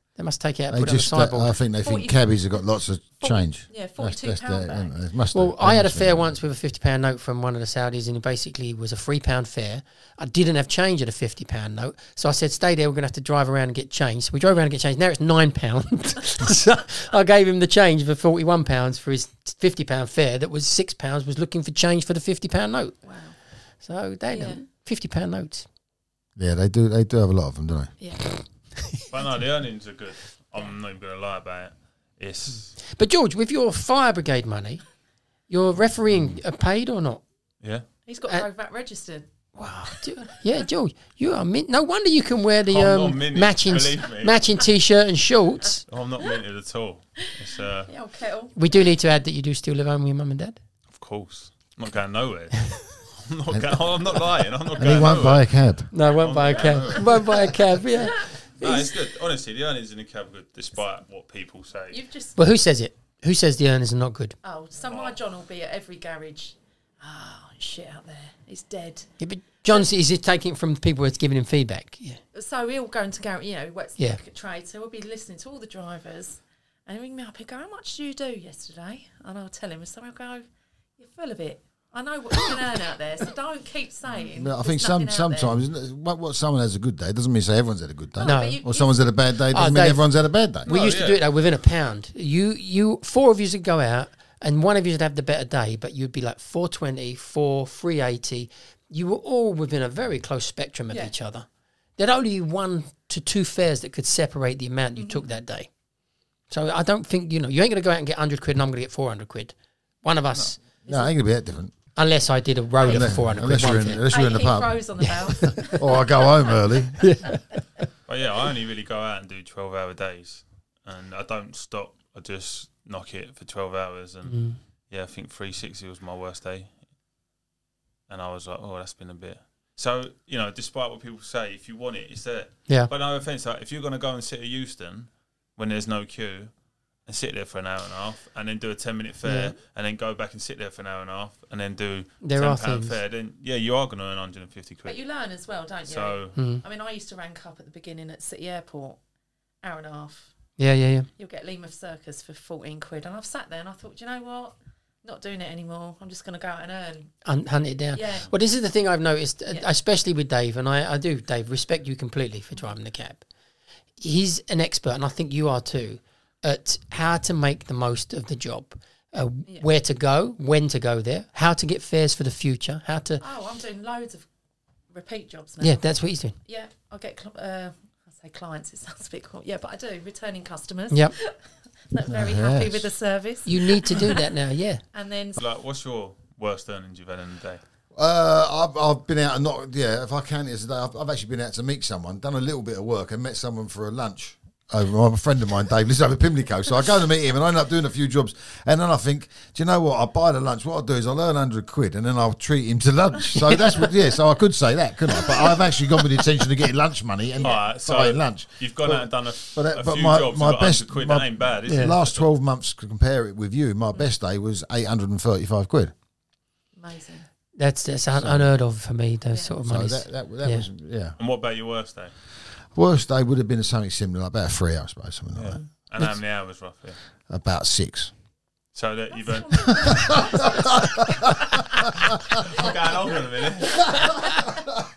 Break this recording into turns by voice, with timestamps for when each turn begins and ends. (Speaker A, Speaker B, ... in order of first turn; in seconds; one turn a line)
Speaker A: 0.2-1.6
Speaker B: 0.7-6.4
Speaker C: 1.8-4.9
Speaker A: 5.3-25.7
Speaker C: 23.0-23.4
Speaker C: 24.3-24.6
Speaker B: 26.4-28.0
Speaker C: 28.0-28.9
Speaker D: 29.1-32.8
Speaker A: 32.8-34.9
Speaker A: 35.5-37.3
Speaker B: 36.1-36.4
Speaker D: 37.6-37.9
Speaker C: 38.0-39.5
Speaker A: 39.5-45.9
Speaker D: 42.7-44.4
Speaker D: 45.9-47.9
Speaker C: 47.9-48.7
Speaker A: 48.5-50.6
Speaker D: 50.9-57.3
Speaker B: 53.5-54.0
Speaker B: 54.8-55.9
Speaker A: 55.9-58.9
Speaker C: 58.2-58.7
Speaker D: 58.5-62.0
Speaker C: 61.9-62.4
Speaker A: 62.4-64.4
Speaker C: 64.4-69.9
Speaker D: 64.8-65.2
Speaker A: 69.2-72.2
Speaker C: 72.3-80.5
Speaker C: 81.0-85.6
Speaker B: 84.2-90.7
Speaker C: 88.2-89.0
Speaker A: 88.2-88.6
Speaker A: 89.5-105.7
Speaker C: 90.7-91.0
Speaker D: 90.7-91.2
Speaker C: 105.0-105.3
Speaker A: 106.5-110.8
Speaker B: 110.8-111.7
Speaker A: 112.0-114.1
Speaker C: 112.8-116.9
Speaker B: 112.8-117.1
Speaker A: 115.0-115.8
Speaker A: 117.0-117.8
Speaker D: 118.1-126.9
Speaker A: 124.3-124.6
Speaker D: 128.1-145.2
Speaker A: 139.2-139.6
Speaker A: 142.2-143.0
Speaker C: 144.8-149.0
Speaker D: 145.8-146.4
Speaker A: 146.4-146.6
Speaker C: 149.6-150.6
Speaker A: 150.6-151.1
Speaker C: 151.2-157.2
Speaker A: 157.2-163.3
Speaker C: 157.9-158.3
Speaker A: 164.0-173.2
Speaker C: 173.2-174.3
Speaker C: 174.9-184.4
Speaker A: 175.6-176.4
Speaker A: 180.9-181.2
Speaker B: 182.1-182.9
Speaker A: 183.4-184.8
Speaker C: 184.9-185.4
Speaker D: 185.4-187.6
Speaker B: 187.9-215.9
Speaker C: 203.5-203.9
Speaker C: 207.4-207.7
Speaker D: 207.4-212.3
Speaker A: 211.7-212.0
Speaker C: 216.8-217.3
Speaker A: 217.6-220.7
Speaker B: 218.2-218.5
Speaker C: 219.3-219.6
Speaker B: 219.6-221.2
Speaker D: 221.2-222.2
Speaker B: 222.7-225.6
Speaker D: 225.3-227.0
Speaker B: 227.3-228.1
Speaker D: 228.7-230.6
Speaker C: 229.1-231.6
Speaker B: 229.7-230.1
Speaker B: 230.8-231.2
Speaker D: 232.5-234.2
Speaker B: 234.0-234.6